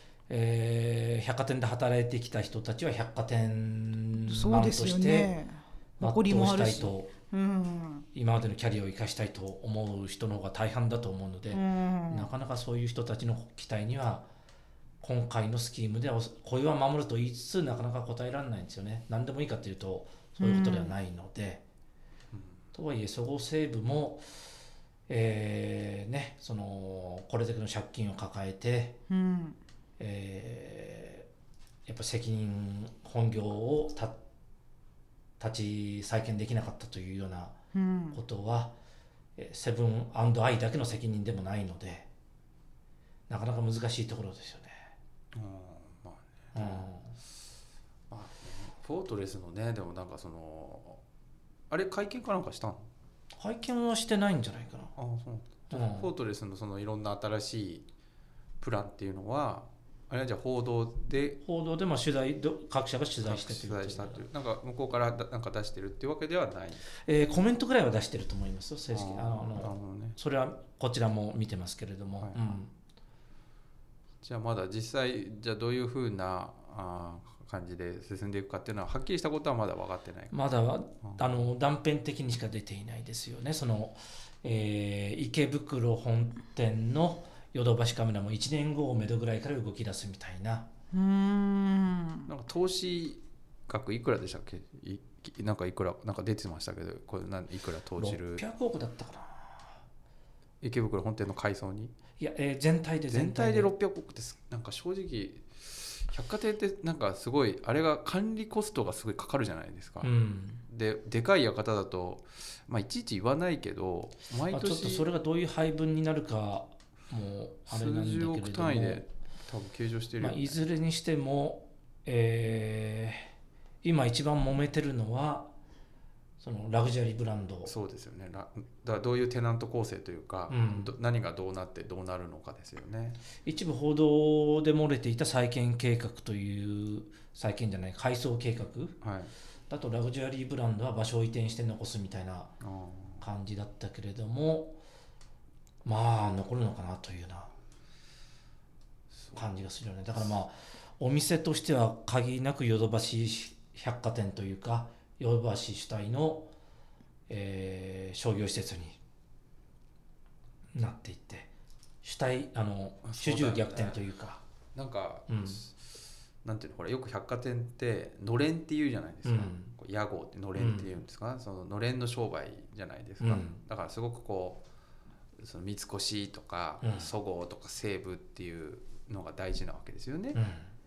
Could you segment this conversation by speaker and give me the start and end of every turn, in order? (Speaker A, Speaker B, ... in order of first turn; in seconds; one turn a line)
Speaker A: 0.3-5.3
Speaker B: 4.2-8.1
Speaker A: 6.0-7.1
Speaker A: 8.1-14.3
Speaker B: 11.5-12.3
Speaker A: 15.0-21.6
Speaker B: 20.4-20.9
Speaker C: 22.3-22.6
Speaker A: 22.7-24.2
Speaker A: 25.1-29.0
Speaker B: 29.1-29.6
Speaker A: 30.0-31.3
Speaker A: 31.9-34.2
Speaker A: 35.4-37.6
Speaker B: 37.7-38.2
Speaker A: 38.1-38.8
Speaker A: 39.4-42.1
Speaker A: 43.3-44.9
Speaker C: 45.3-46.9
Speaker A: 46.5-47.1
Speaker C: 48.1-51.0
Speaker C: 51.7-52.9
Speaker A: 53.4-54.9
Speaker C: 55.0-57.9
Speaker A: 55.7-56.1
Speaker C: 58.6-61.4
Speaker A: 61.4-64.2
Speaker C: 63.2-66.9
Speaker A: 67.0-72.7
Speaker C: 68.9-70.2
Speaker C: 72.2-72.5
Speaker C: 74.2-80.4
Speaker A: 80.3-90.7
Speaker C: 81.0-81.5
Speaker B: 90.9-92.3
Speaker C: 92.3-98.4
Speaker A: 98.0-99.8
Speaker C: 100.6-102.0
Speaker A: 102.2-103.7
Speaker C: 103.1-110.1
Speaker A: 110.0-110.6
Speaker C: 110.7-115.0
Speaker A: 114.5-119.0
Speaker C: 117.7-120.6
Speaker A: 120.2-123.3
Speaker A: 123.8-125.5
Speaker A: 126.4-127.7
Speaker C: 127.7-133.2
Speaker A: 130.5-130.9
Speaker A: 133.4-139.0
Speaker C: 139.0-139.3
Speaker A: 139.7-142.5
Speaker C: 142.6-143.2
Speaker A: 143.2-144.8
Speaker A: 145.8-147.5
Speaker C: 149.1-149.4
Speaker A: 149.3-156.5
Speaker A: 157.3-159.0
Speaker A: 160.7-161.5
Speaker A: 162.0-164.4
Speaker C: 163.0-164.0
Speaker C: 164.8-165.9
Speaker A: 165.3-165.6
Speaker C: 166.4-174.6
Speaker A: 169.2-169.7
Speaker A: 170.6-170.9
Speaker A: 173.2-173.6
Speaker C: 175.4-180.4
Speaker A: 176.8-177.1
Speaker A: 180.3-180.7